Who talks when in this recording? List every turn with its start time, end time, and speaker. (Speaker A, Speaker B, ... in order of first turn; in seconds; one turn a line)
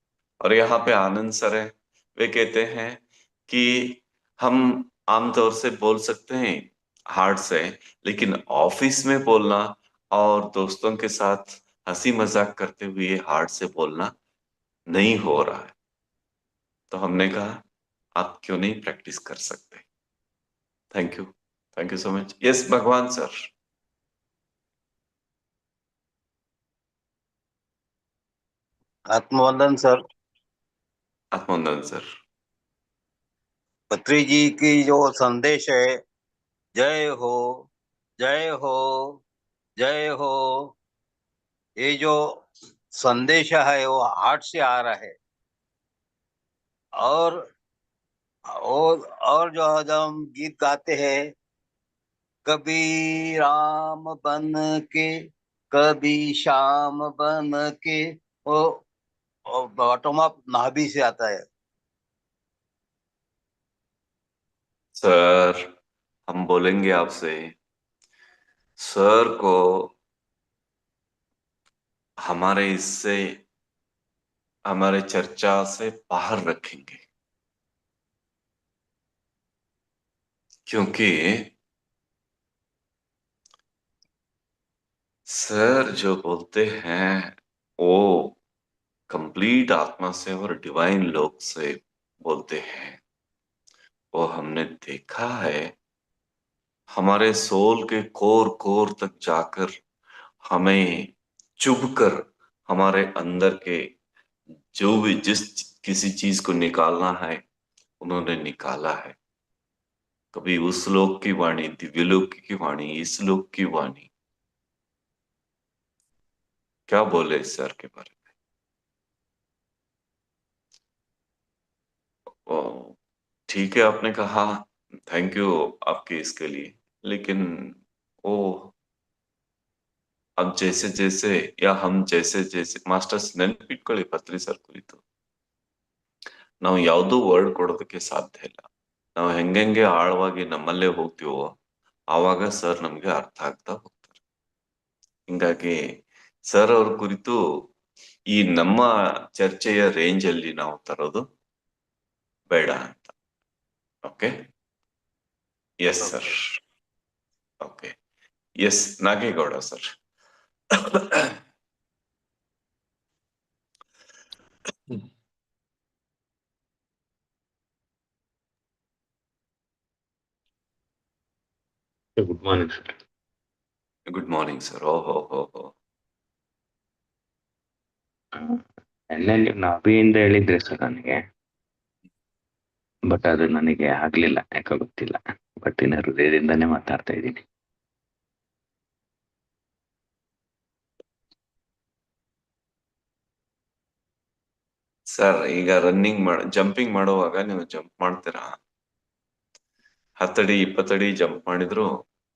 Speaker A: 0.4-14.1
Speaker A: 14.9-15.7
Speaker A: 16.9-17.6
Speaker A: 18.2-19.8
Speaker A: 20.9-23.3
Speaker B: 29.1-30.0
Speaker A: 31.3-32.0
Speaker B: 34.0-35.9
Speaker B: 36.8-37.6
Speaker B: 38.2-39.1
Speaker B: 39.8-40.6
Speaker B: 41.8-42.2
Speaker B: 43.0-45.1
Speaker B: 47.0-47.4
Speaker B: 48.5-51.2
Speaker B: 52.5-55.1
Speaker B: 55.7-58.7
Speaker B: 59.5-61.4
Speaker A: 65.0-65.7
Speaker A: 66.3-67.5
Speaker A: 68.8-69.9
Speaker A: 72.3-73.4
Speaker A: 74.7-77.0
Speaker A: 80.7-81.5
Speaker A: 85.3-88.4
Speaker A: 89.1-93.0
Speaker A: 94.2-95.7
Speaker A: 97.0-99.7
Speaker A: 100.5-103.8
Speaker A: 104.8-107.4
Speaker A: 108.0-109.2
Speaker A: 110.3-114.1
Speaker A: 116.9-118.2
Speaker A: 122.5-122.9
Speaker A: 123.5-128.7
Speaker A: 130.4-135.0
Speaker A: 136.6-138.7
Speaker A: 139.2-141.5
Speaker A: 142.1-144.1
Speaker A: 145.3-145.8
Speaker A: 146.5-147.4
Speaker A: 148.3-151.2
Speaker A: 152.5-153.1
Speaker A: 154.1-154.3
Speaker A: 155.8-156.4
Speaker A: 157.6-157.9
Speaker A: 158.6-159.9
Speaker C: 172.2-173.0
Speaker A: 174.1-175.7
Speaker C: 178.3-181.2
Speaker C: 183.1-187.4
Speaker A: 195.1-198.6
Speaker A: 200.2-201.9